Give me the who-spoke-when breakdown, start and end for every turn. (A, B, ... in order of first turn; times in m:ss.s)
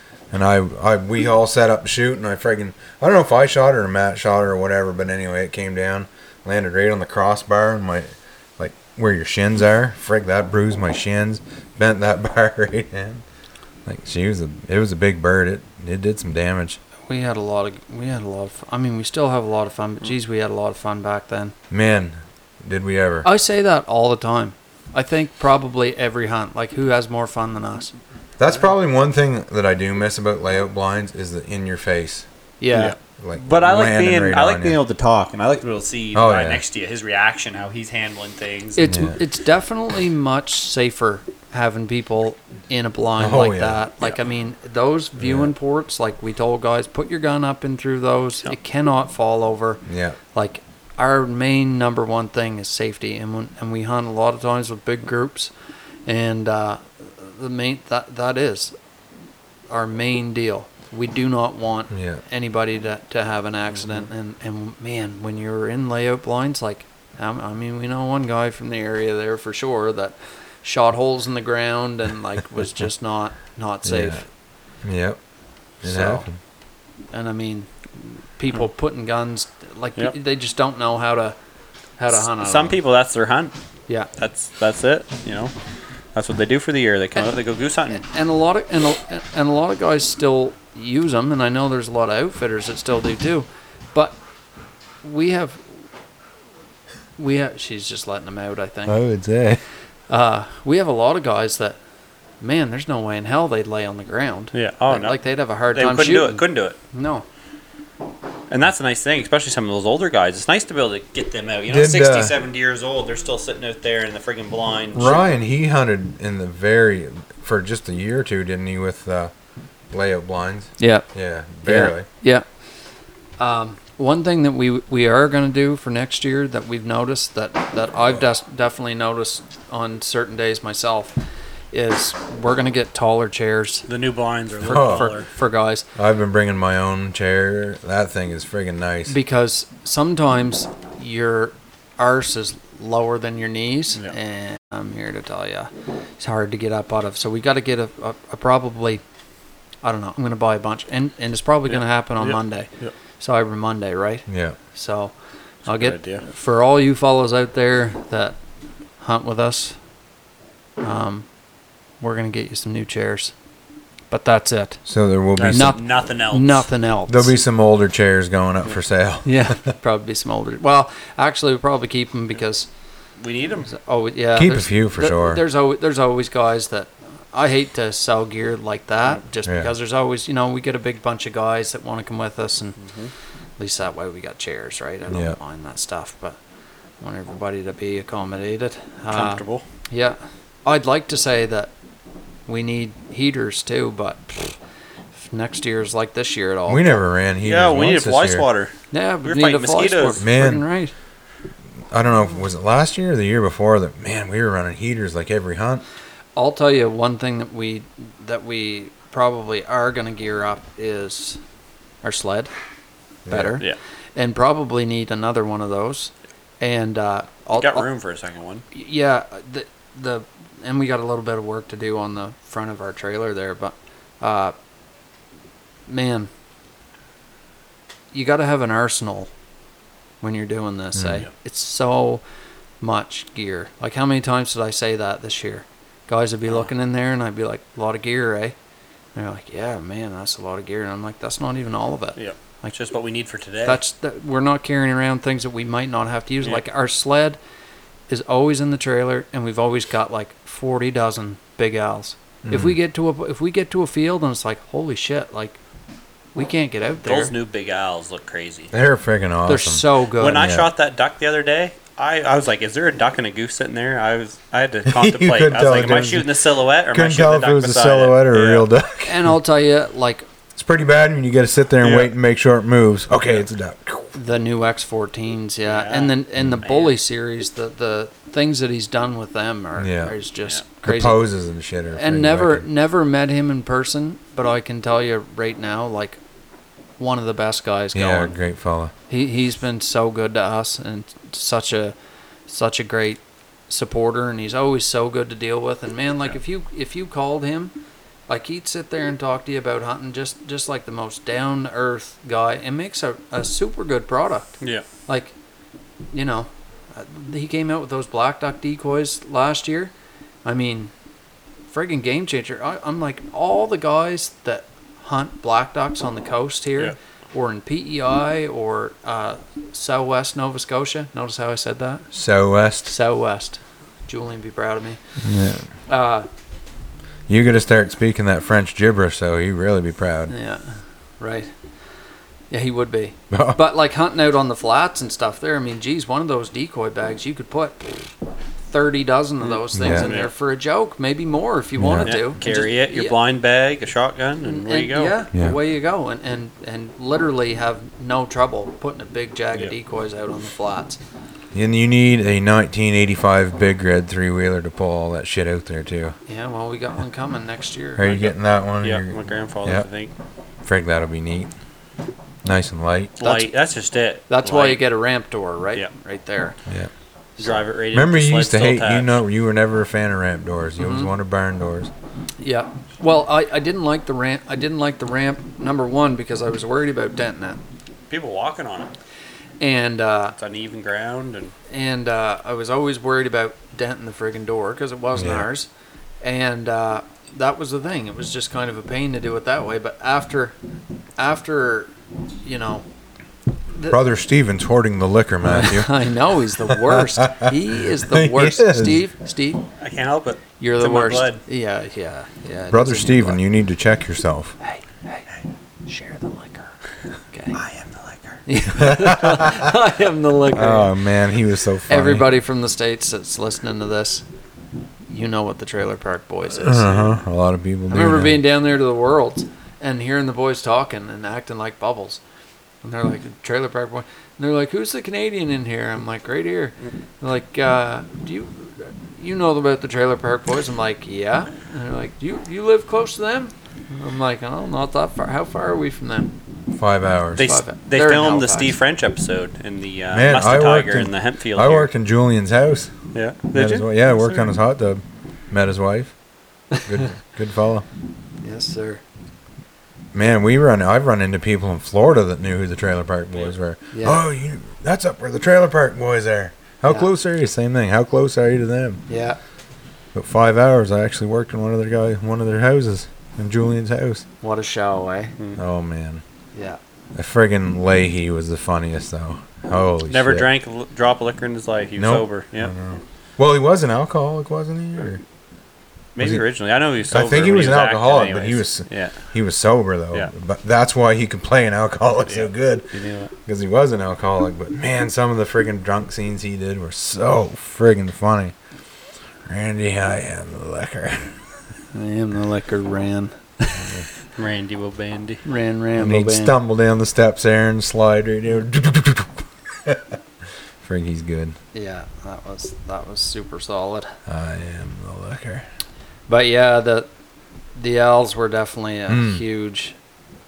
0:00.3-0:08.1 A
0:08.6-0:13.2 A
0:13.8-0:16.8 A
0:17.1-0:21.5 B
0:21.7-0:23.3 A
0:23.2-0:27.9 B
0:28.4-0:32.2 A
0:32.6-0:32.9 B
0:32.7-0:38.9 C
0:33.2-0:34.8 A
0:36.1-0:36.6 A
0:38.8-0:49.8 B
0:38.9-0:39.2 A
0:43.2-0:43.8 A
0:45.2-0:45.5 A
0:49.9-0:50.2 A
0:50.3-0:55.5 B
0:56.0-0:58.7 B
0:59.7-1:14.2 B
1:01.9-1:02.2 A
1:13.8-1:14.2 A
1:14.8-1:15.2 A
1:15.8-1:16.4 A
1:15.8-1:16.2 B
1:17.1-1:21.4 B
1:22.0-1:22.8 B
1:22.1-1:23.5 C
1:24.2-1:25.5 C
1:26.1-1:28.0 C
1:27.9-1:34.2 B
1:35.0-1:35.8 B
1:37.2-1:39.0 B
1:38.9-1:39.6 A
1:40.1-1:41.8 B
1:42.4-1:47.2 B
1:44.5-1:45.2 C
1:45.7-1:46.8 C
1:48.5-1:55.2 C
1:51.7-1:52.4 A
1:54.9-1:59.3 A
1:59.9-2:02.1 A
2:00.8-2:01.1 B
2:01.6-2:02.4 B
2:03.4-2:11.2 B
2:11.7-2:13.9 B
2:13.9-2:15.3 C
2:14.6-2:15.1 A
2:14.6-2:15.8 B
2:16.0-2:19.2 A
2:19.1-2:29.0 B
2:29.8-2:32.7 B
2:31.7-2:32.9 C
2:33.2-2:35.1 B
2:34.3-2:34.6 A
2:35.6-2:38.4 B
2:35.7-2:36.2 C
2:39.0-2:39.8 B
2:40.8-2:41.2 B
2:42.0-2:43.3 B
2:44.1-2:44.8 B
2:44.8-2:45.8 A
2:45.4-2:46.6 C
2:45.5-2:47.3 B
2:47.1-2:49.5 A
2:49.2-2:52.7 B
2:53.2-2:53.7 C
2:53.7-3:02.8 B
2:54.3-2:55.4 A
2:59.4-2:59.7 A
3:02.8-3:03.1 C
3:03.6-3:06.4 B
3:05.1-3:05.4 A
3:07.0-3:11.7 B
3:09.1-3:09.6 C
3:12.5-3:14.6 B
3:15.2-3:17.0 B
3:16.7-3:18.5 A
3:17.4-3:20.2 C
3:18.9-3:20.9 B
3:20.2-3:20.6 A
3:21.9-3:25.8 A
3:26.4-3:31.4 B
3:32.0-3:32.5 B
3:33.2-3:33.6 A
3:33.3-3:37.9 B
3:37.6-3:38.6 C
3:38.7-3:44.5 B
3:45.9-3:46.3 B
3:48.1-3:49.3 B
3:50.2-3:52.2 B
3:50.9-3:51.2 A
3:52.8-3:58.6 B
3:59.1-4:02.7 B
4:02.2-4:03.8 C
4:03.6-4:07.4 B
4:08.1-4:15.6 B
4:12.4-4:12.8 A
4:16.3-4:17.3 B
4:17.0-4:18.7 C
4:18.7-4:20.7 A
4:19.4-4:20.5 B
4:20.2-4:28.7 C
4:24.8-4:26.3 A
4:26.9-4:29.3 A
4:29.0-4:30.2 B
4:30.6-4:34.1 A
4:31.8-4:32.1 C
4:34.1-4:41.2 B
4:35.6-4:36.9 C
4:39.8-4:40.2 A
4:40.8-4:42.7 A
4:41.9-4:46.2 B
4:47.0-4:48.3 B
4:47.9-4:48.9 A
4:49.1-4:51.9 B
4:52.5-4:57.7 B
4:58.3-5:04.6 B
5:04.6-5:04.8 C
5:05.1-5:05.3 B
5:06.1-5:09.9 B
5:10.4-5:10.9 B
5:11.7-5:22.1 B
5:22.1-5:22.9 A
5:22.9-5:25.0 B
5:25.2-5:25.7 A
5:25.9-5:26.3 B
5:27.3-5:30.3 A
5:30.3-5:31.5 B
5:32.5-5:37.9 B
5:33.3-5:33.6 A
5:38.7-5:43.2 B
5:39.4-5:40.3 C
5:39.7-5:40.1 A
5:41.8-5:42.2 A
5:42.0-5:45.2 C
5:44.4-5:51.0 B
5:51.5-5:56.1 A
5:56.3-5:58.2 B
5:58.0-5:59.9 A
5:58.1-6:00.1 C
6:00.6-6:01.5 A
6:02.4-6:03.1 A
6:03.2-6:04.8 C
6:03.2-6:03.5 B
6:04.3-6:06.6 B
6:06.6-6:06.9 A
6:07.4-6:09.2 C
6:07.9-6:11.9 A
6:10.8-6:11.1 B
6:12.4-6:17.6 B
6:18.1-6:18.9 C
6:19.6-6:20.4 B
6:20.3-6:21.5 C
6:21.7-6:25.7 B
6:25.1-6:25.5 A
6:26.2-6:30.6 B
6:31.2-6:32.8 B
6:33.9-6:35.9 A
6:35.5-6:39.7 B
6:36.6-6:39.0 A
6:39.8-6:41.4 C
6:40.6-6:43.4 B
6:42.7-6:44.6 A
6:44.6-6:45.3 B
6:45.8-6:46.7 B
6:47.3-6:47.6 B
6:47.5-6:48.4 C
6:48.4-6:50.9 B
6:48.7-6:49.7 A
6:50.5-6:52.3 A
6:51.9-6:54.2 B
6:55.1-6:57.0 B
6:56.5-6:58.4 A
6:57.9-7:02.2 B
7:02.8-7:16.3 B
7:16.7-7:17.5 A
7:17.4-7:21.9 C
7:17.4-7:18.8 B
7:20.1-7:22.9 A
7:23.1-7:24.3 C
7:23.5-7:26.1 A
7:26.7-7:27.0 B
7:26.8-7:27.8 A
7:28.4-7:29.0 B
7:30.1-7:39.0 A
7:33.9-7:34.2 B
7:39.1-7:39.4 B
7:40.1-7:44.2 A
7:44.4-7:45.3 B
7:45.6-7:46.2 A
7:46.5-7:46.8 B
7:47.1-7:50.5 A
7:50.1-7:52.7 C
7:52.0-7:55.2 A
7:56.2-7:59.2 C
7:56.2-7:56.4 A
7:57.1-8:02.9 A
8:02.2-8:03.3 C
8:03.4-8:08.5 A
8:09.4-8:11.4 A
8:11.9-8:13.9 B
8:13.8-8:14.0 A
8:14.3-8:15.4 C
8:15.4-8:16.5 B
8:16.0-8:20.2 A
8:20.8-8:21.6 A
8:21.7-8:24.2 B
8:24.3-8:25.6 A
8:26.3-8:27.1 B
8:27.7-8:30.0 B
8:29.1-8:29.4 A